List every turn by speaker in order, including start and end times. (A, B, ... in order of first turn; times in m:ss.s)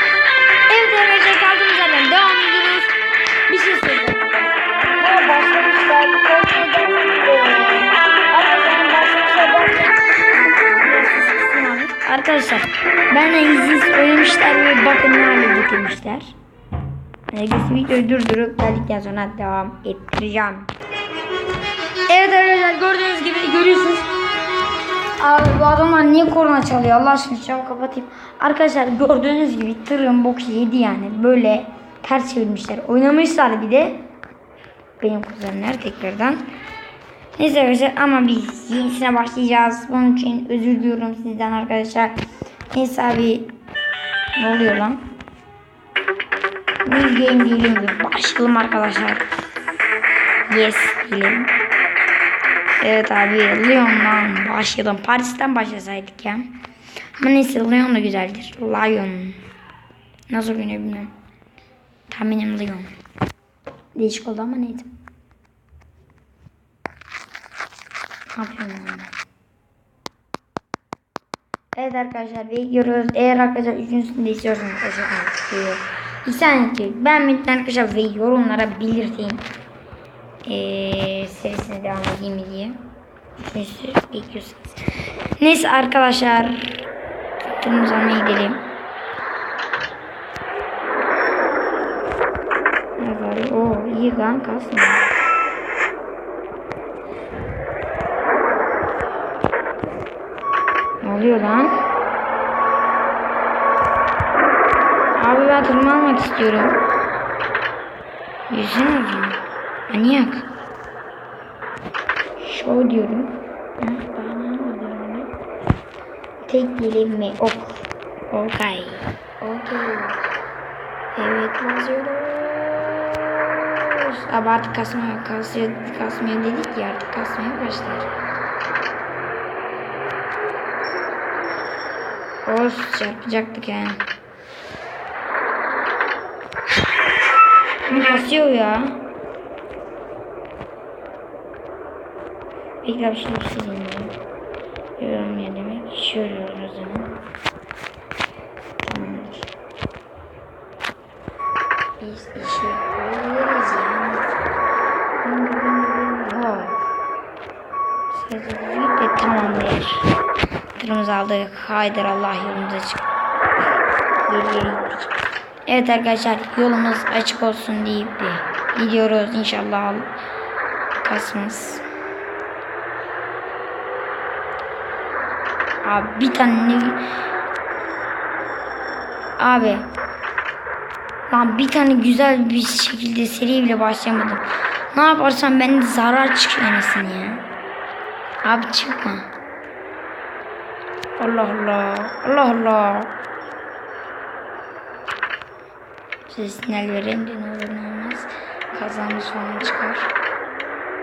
0:00.7-0:02.9 A
0:03.5-0:10.0 A
0:10.7-0:16.3 A
0:17.3-0:20.7 A
0:22.0-0:24.1 A
0:25.2-0:34.0 A
0:35.0-0:36.4 A
0:37.3-0:42.1 A
0:42.7-0:43.5 A
0:44.4-0:45.0 A
0:46.8-0:49.3 A
0:50.5-0:51.5 A
0:52.8-0:56.5 A
0:57.2-0:59.4 A
1:00.3-1:01.1 A
1:02.1-1:02.9 A
1:03.9-1:04.9 A
1:08.3-1:09.1 A
1:11.7-1:19.5 A
1:20.4-1:22.8 A
1:23.4-1:24.8 A
1:25.4-1:26.7 A
1:27.4-1:28.7 A
1:33.0-1:35.0 A
1:41.0-1:41.8 A
1:45.2-1:46.8 A
1:48.5-1:50.4 A
1:52.4-1:55.3 A
1:56.4-2:00.2 A
2:01.1-2:08.1 A
2:12.4-2:14.0 A
2:17.9-2:19.0 A
2:22.8-2:24.2 A
2:25.0-2:27.2 A
2:28.8-2:29.5 A
2:32.0-2:34.4 A
2:35.2-2:36.8 A
2:38.1-2:40.1 A
2:40.7-2:43.1 A
2:44.3-2:45.1 A
2:45.6-2:50.1 A
2:51.0-2:51.8 A
2:55.8-2:57.1 A
2:59.4-2:59.9 A
3:01.3-3:07.4 A
3:08.4-3:09.2 A
3:11.2-3:13.2 A
3:16.3-3:20.1 A